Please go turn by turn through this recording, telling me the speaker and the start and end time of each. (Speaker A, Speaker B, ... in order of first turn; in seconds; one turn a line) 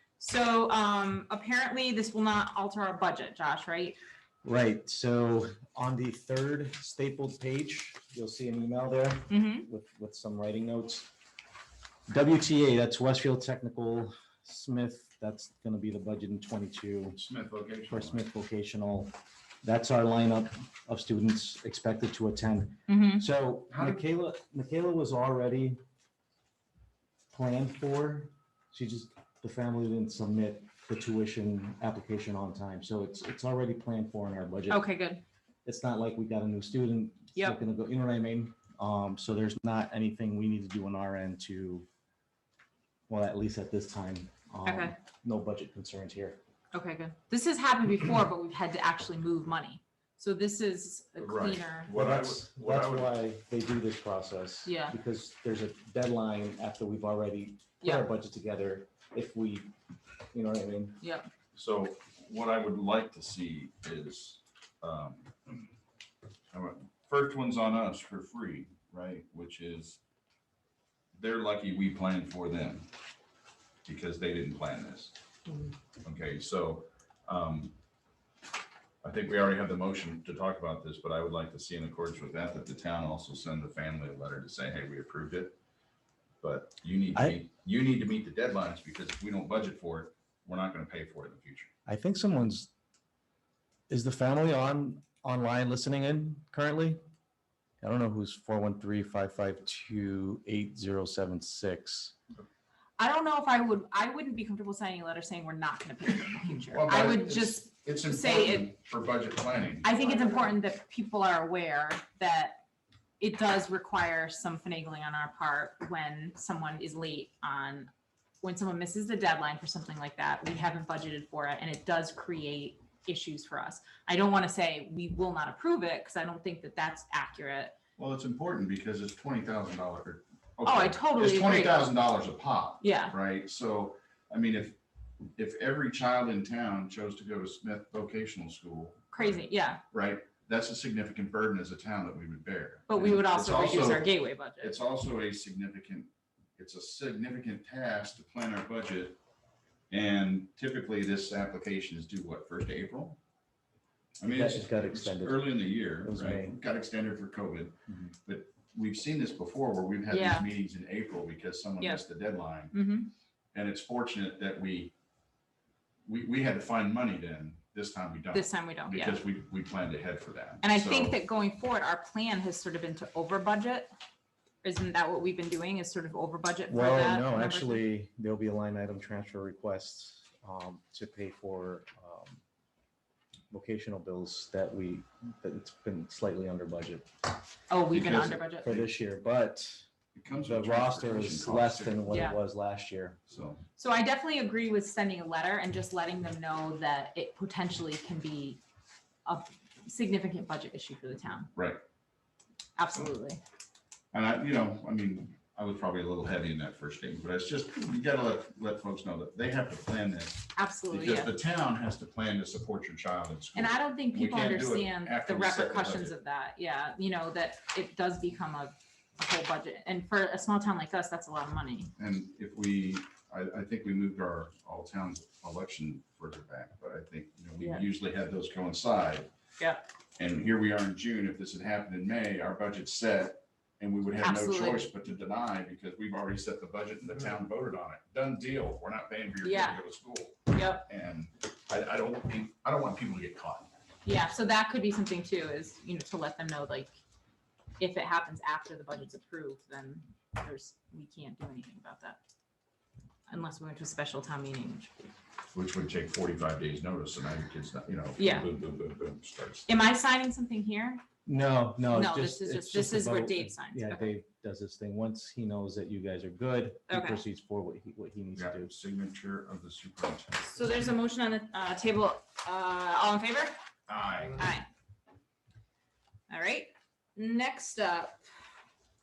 Speaker A: 0.2-4.0
Speaker B: 4.4-11.1
Speaker A: 9.3-9.7
Speaker B: 12.1-17.2
Speaker C: 17.1-18.2
Speaker B: 17.9-25.8
Speaker A: 22.9-23.2
Speaker C: 23.7-24.0
Speaker B: 27.3-34.8
Speaker A: 34.7-35.2
Speaker B: 35.6-41.9
Speaker B: 43.1-46.4
Speaker A: 44.6-44.9
Speaker A: 46.7-51.9
Speaker C: 51.2-53.1
Speaker B: 51.9-59.7
Speaker A: 54.6-55.0
Speaker A: 57.8-58.1
Speaker B: 60.3-61.0
Speaker A: 61.0-61.3
Speaker C: 61.5-65.7
Speaker C: 66.5-70.0
Speaker C: 71.1-72.9
Speaker C: 73.8-75.1
Speaker C: 76.0-77.7
Speaker C: 79.0-85.5
Speaker C: 86.4-91.7
Speaker B: 91.9-92.7
Speaker B: 93.9-97.0
Speaker B: 97.8-102.1
Speaker A: 103.0-108.7
Speaker C: 106.6-110.5
Speaker A: 109.8-112.6
Speaker A: 113.2-117.9
Speaker A: 118.4-127.7
Speaker C: 128.0-134.8
Speaker A: 130.6-131.9
Speaker A: 132.8-133.1
Speaker C: 135.4-139.4
Speaker A: 139.1-139.8
Speaker C: 139.9-149.2
Speaker A: 142.9-144.8
Speaker C: 149.9-153.2
Speaker C: 154.2-162.8
Speaker B: 154.2-156.5
Speaker B: 157.9-158.1
Speaker A: 160.1-160.5
Speaker A: 162.7-163.1
Speaker C: 163.5-164.9
Speaker C: 166.1-171.2
Speaker A: 168.3-169.2
Speaker A: 170.6-173.9
Speaker A: 174.6-177.8
Speaker B: 176.7-182.4
Speaker B: 183.5-187.1
Speaker A: 187.7-188.7
Speaker C: 187.9-188.9
Speaker B: 188.1-193.2
Speaker C: 190.1-192.1
Speaker A: 192.1-192.4
Speaker C: 193.3-193.6
Speaker A: 193.8-198.6
Speaker A: 199.2-201.5
Speaker C: 201.5-201.8
Speaker A: 202.8-203.4
Speaker C: 204.1-216.1
Speaker A: 210.5-211.3
Speaker A: 213.5-221.9
Speaker C: 222.0-229.3
Speaker A: 227.6-227.8
Speaker C: 230.2-243.7
Speaker A: 234.2-234.9
Speaker A: 239.4-239.8
Speaker A: 240.5-240.9
Speaker A: 244.0-246.9
Speaker A: 247.8-252.2
Speaker A: 253.3-254.9
Speaker C: 255.5-259.7
Speaker A: 258.2-258.5
Speaker A: 259.7-261.0
Speaker B: 261.2-268.7
Speaker A: 261.9-264.1
Speaker A: 266.9-267.2
Speaker C: 268.4-270.4
Speaker A: 270.4-273.5
Speaker C: 273.9-274.4
Speaker A: 274.3-274.7
Speaker A: 276.3-278.3